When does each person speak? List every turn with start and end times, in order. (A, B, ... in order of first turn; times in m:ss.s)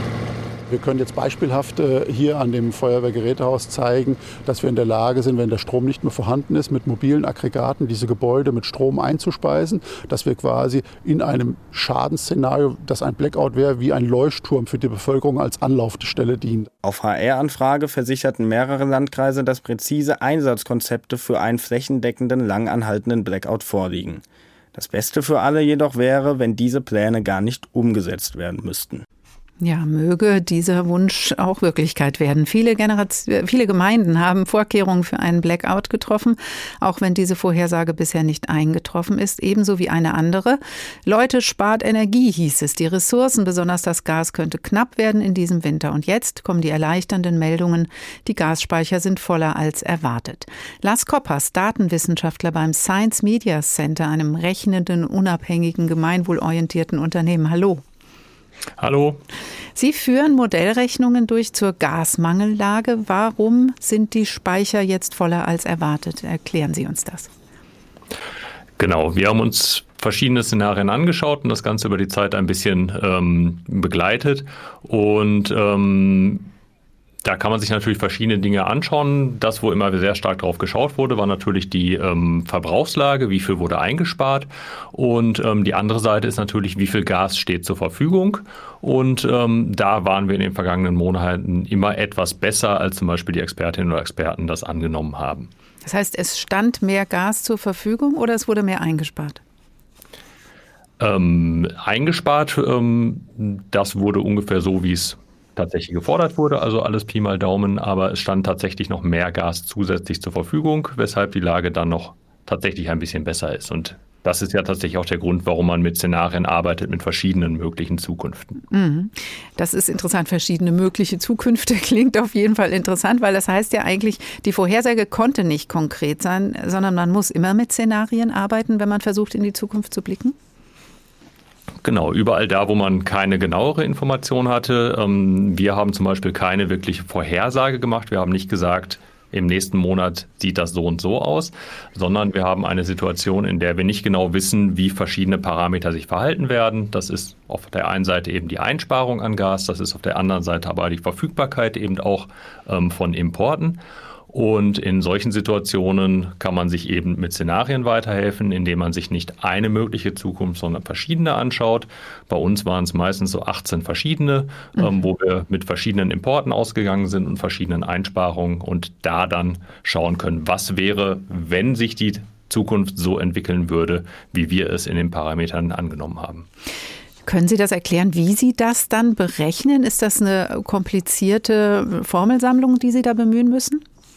0:00.7-0:16.7 A
0:16.8-0:24.2 B
0:24.7-0:29.0 B
0:29.6-0:57.8 C
0:58.8-0:59.2 D
0:59.8-1:07.3 C
1:08.8-1:16.5 D
1:17.2-1:35.5 D
1:35.8-1:39.4 C
1:41.0-1:58.6 D
1:58.7-2:10.3 C
2:11.8-2:33.8 D
2:34.3-2:56.4 D
2:57.2-3:03.8 C